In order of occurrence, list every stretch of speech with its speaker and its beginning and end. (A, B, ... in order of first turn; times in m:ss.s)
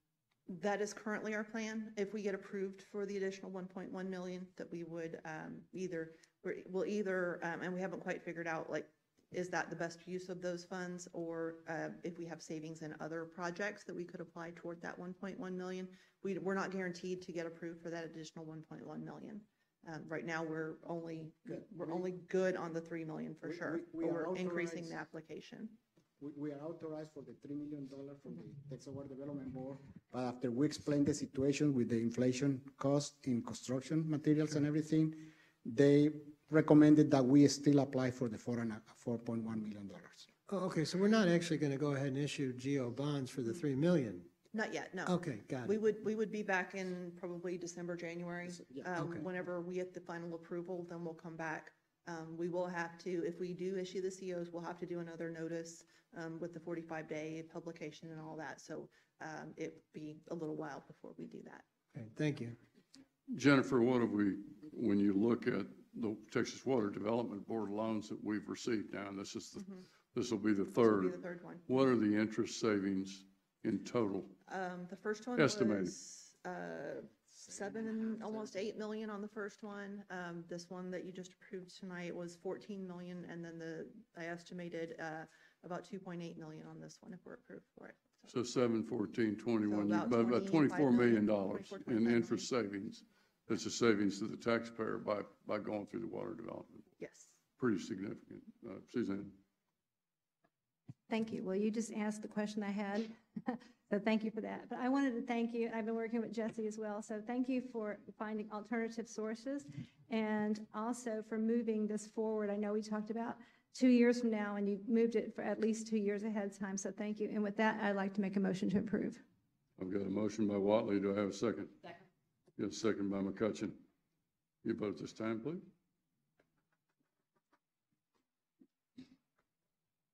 0:00.5-0:25.8 A
0:21.5-0:22.0 B
0:23.4-0:25.0 B
0:26.2-0:40.3 B
0:40.5-0:44.3 C
0:44.5-1:01.6 A
0:45.0-0:45.8 C
0:49.0-0:49.2 C
1:01.9-1:02.6 C
1:03.3-1:14.3 D
1:10.7-1:11.7 A
1:14.5-1:28.3 A
1:15.4-1:15.9 D
1:28.3-1:36.9 D
1:29.7-1:32.5 A
1:37.0-1:37.4 A
1:37.6-1:39.4 D
1:41.1-1:59.2 E
1:59.8-2:01.8 D
2:02.6-2:03.8 D
2:04.6-2:05.6 D